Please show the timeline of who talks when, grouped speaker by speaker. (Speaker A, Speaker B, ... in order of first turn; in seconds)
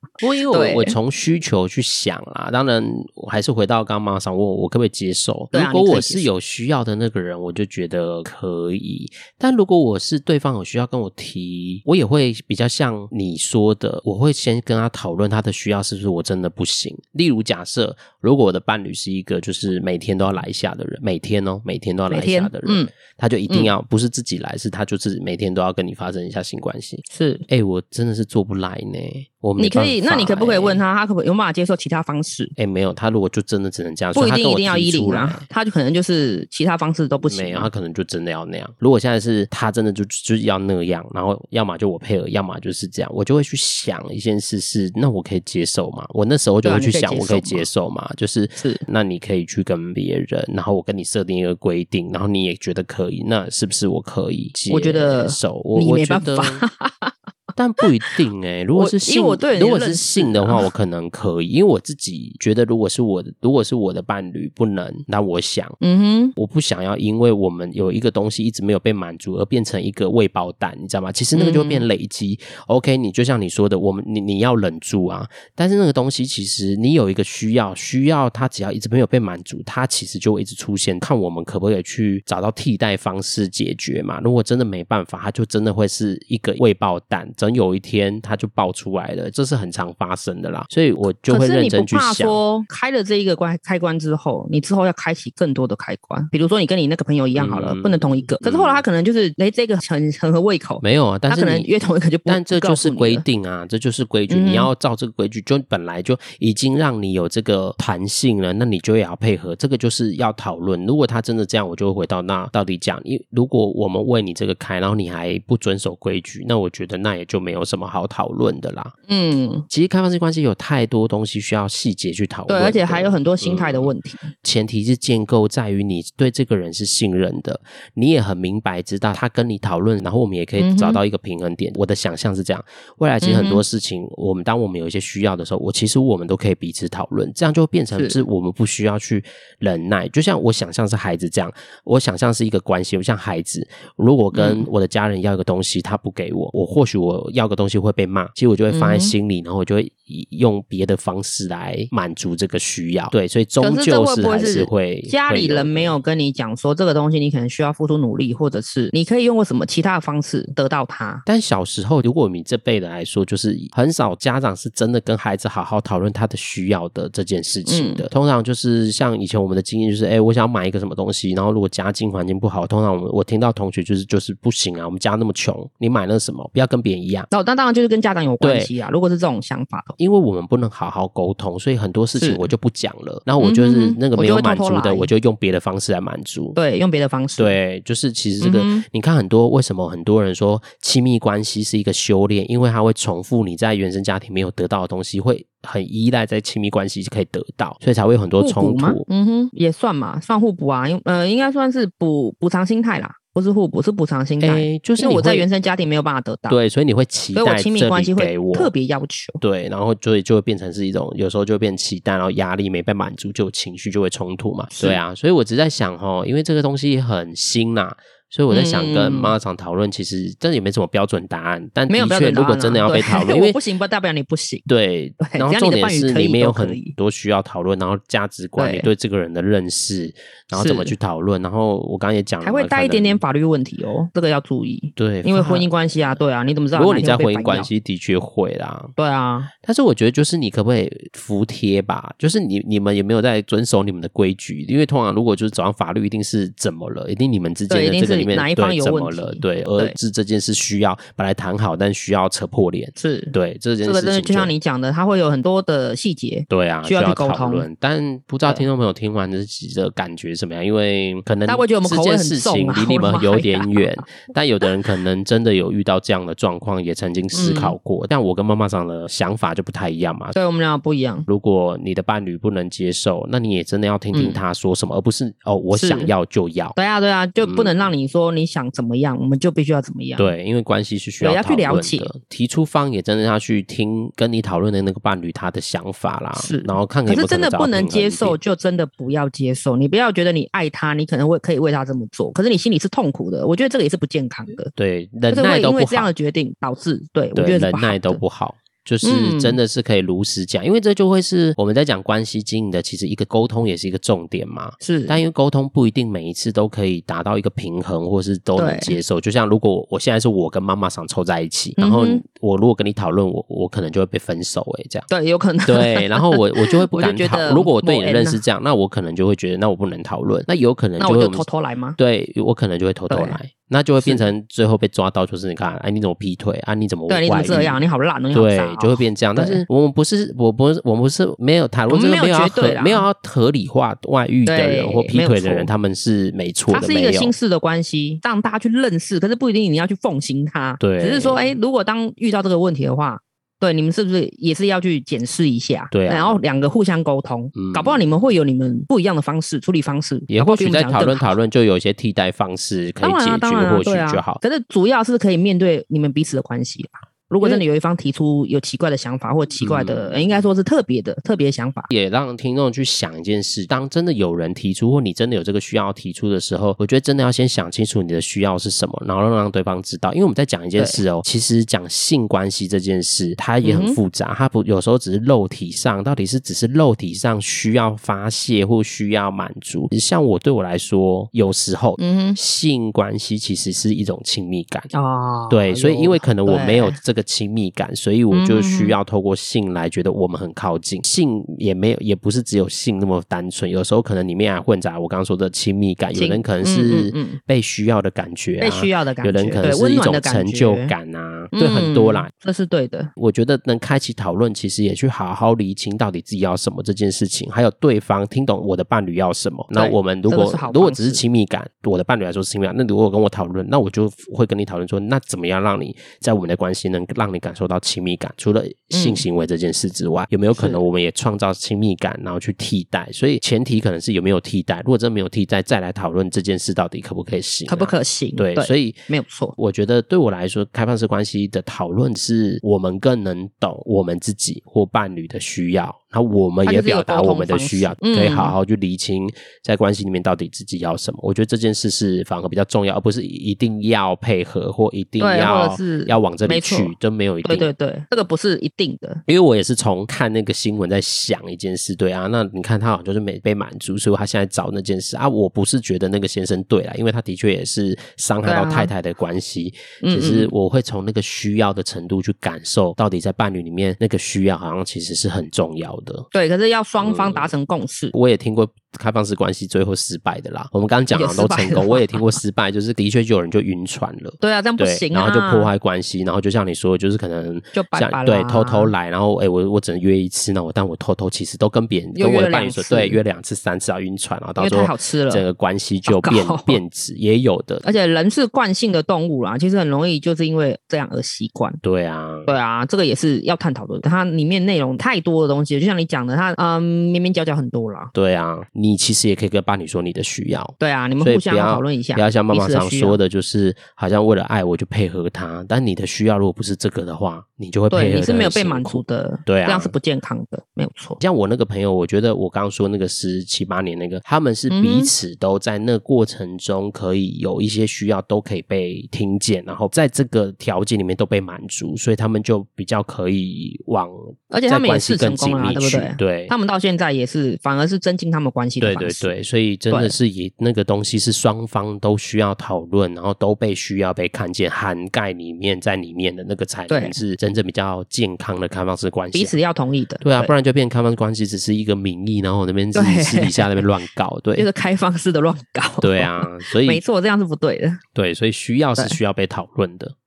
Speaker A: 0.2-30.8, 32.6-35.4, 37.2-56.6, 57.5-65.8, 66.3-92.4, 97.3-98.8, 100.8-101.7, 102.2-118.9, 119.7-123.9, 124.4-156.0, 161.2-177.3, 178.4-178.7, 180.0-186.6, 187.4-199.0, 204.4-205.5, 206.5-208.7, 209.4-223.6, 224.7-233.2, 235.0-236.2, 236.7-238.9, 239.6-254.5, 256.5-270.3, 271.3-276.7, 277.4-277.9, 280.2-288.4, 294.7-296.1, 297.3-315.1, 315.6-321.5, 322.0-337.3, 340.8-341.5, 345.9-346.4, 347.5-348.0, 350.3-354.4, 359.6-360.4, 361.9-384.9, 385.5-402.3, 403.2-429.0, 429.6-447.7, 449.3-466.2, 467.0-467.5, 468.1-487.8, 491.8-492.5, 498.1-509.9, 511.2-526.5, 528.8-539.5, 540.2-544.7, 546.0-547.0, 548.1-550.1
Speaker B: 0.5-0.9, 5.5-6.3, 22.1-22.9, 27.1-27.4, 29.6-32.5, 34.1-37.7, 46.6-47.7, 48.6-48.8, 54.7-57.1, 57.8-58.1, 58.8-60.7, 65.8-66.3, 71.3-71.8, 91.3-103.2, 104.3-104.7, 119.1-119.7, 122.5-124.3, 130.6-131.0, 133.2-133.6, 144.3-144.7, 148.7-149.2, 153.6-161.2, 167.7-168.1, 177.3-180.0, 182.2-182.5, 183.4-185.1, 186.5-187.6, 188.4-188.8, 198.4-206.6, 207.3-209.4, 218.5-219.3, 221.9-224.7, 225.2-226.9, 228.6-228.9, 230.5-230.9, 232.4-237.7, 239.0-239.5, 247.7-249.9, 252.9-257.7, 261.4-264.1, 267.3-267.8, 270.3-271.3, 274.1-274.4, 275.7-276.1, 276.8-280.3, 281.2-282.1, 286.4-294.7, 295.3-298.2, 299.0-299.6, 304.8-305.2, 308.6-308.9, 311.8-312.2, 315.1-318.4, 321.0-322.0, 323.1-323.4, 324.0-324.3, 327.1-329.6, 331.9-333.0, 334.4-335.7, 336.7-351.4, 353.0-361.9, 370.8-371.0, 373.6-374.0, 382.0-382.4, 384.9-387.0, 388.3-389.0, 396.1-397.4, 398.6-400.9, 401.5-403.1, 409.7-411.2, 418.9-419.2, 420.5-420.8, 427.7-429.5, 436.6-438.5, 445.2-449.2, 458.4-458.9, 460.0-460.5, 466.3-468.1, 471.1-472.4, 474.4-475.7, 477.7-478.9, 482.1-483.2, 484.6-485.4, 486.1-486.8, 487.8-491.8, 492.4-498.1, 500.8-503.2, 507.9-511.2, 514.7-515.1, 524.5-529.3, 536.9-537.2, 539.3-540.5, 542.9-543.9, 544.5-548.0